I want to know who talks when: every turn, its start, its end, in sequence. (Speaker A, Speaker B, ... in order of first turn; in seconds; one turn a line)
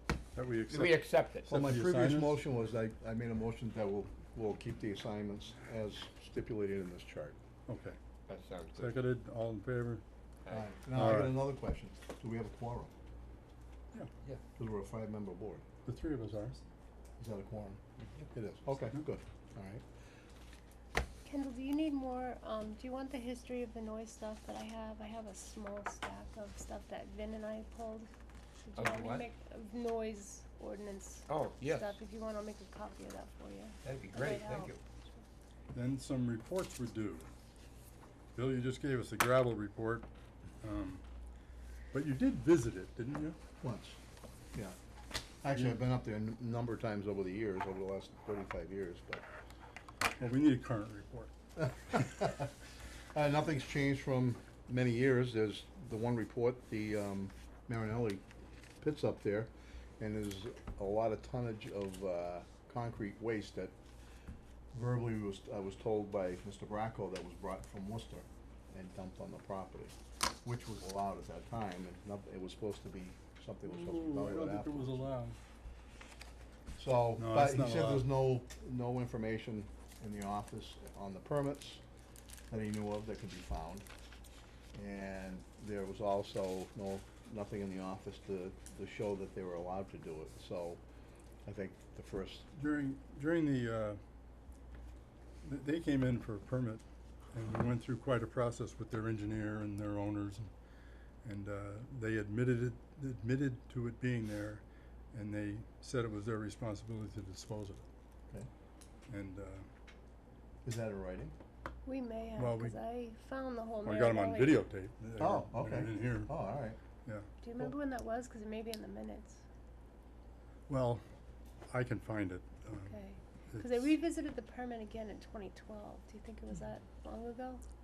Speaker A: 0.3-2.4
Speaker B: 0.7-1.5
Speaker C: 1.5-7.3
Speaker A: 7.7-8.0
Speaker B: 8.3-9.0
Speaker A: 8.8-10.0
Speaker B: 10.4-10.7
Speaker C: 10.5-12.9
Speaker A: 10.9-11.4
Speaker C: 14.6-15.6
Speaker A: 15.8-16.6
Speaker C: 17.2-19.8
Speaker D: 21.2-28.1
Speaker D: 28.6-35.2
Speaker B: 28.8-29.3
Speaker B: 31.3-32.0
Speaker B: 33.8-34.8
Speaker A: 35.7-37.3
Speaker A: 38.3-40.1
Speaker A: 40.6-41.0
Speaker A: 41.9-43.4
Speaker C: 43.6-44.0
Speaker C: 45.4-49.2
Speaker A: 50.2-51.3
Speaker C: 51.6-52.5
Speaker C: 53.1-58.2
Speaker C: 58.8-63.7
Speaker C: 64.7-75.0
Speaker A: 73.7-75.3
Speaker C: 76.8-81.8
Speaker A: 77.2-78.1
Speaker C: 82.5-83.8
Speaker C: 84.7-90.8
Speaker C: 91.4-92.5
Speaker A: 92.5-94.0
Speaker A: 95.4-100.5
Speaker A: 101.2-107.8
Speaker A: 109.1-109.7
Speaker C: 110.6-111.3
Speaker D: 111.8-114.6
Speaker A: 112.4-112.8
Speaker A: 113.8-116.3
Speaker C: 115.2-116.8
Speaker D: 117.4-119.4
Speaker A: 120.7-121.0
Speaker A: 121.7-123.0
Speaker D: 122.8-127.6
Speaker A: 123.5-123.9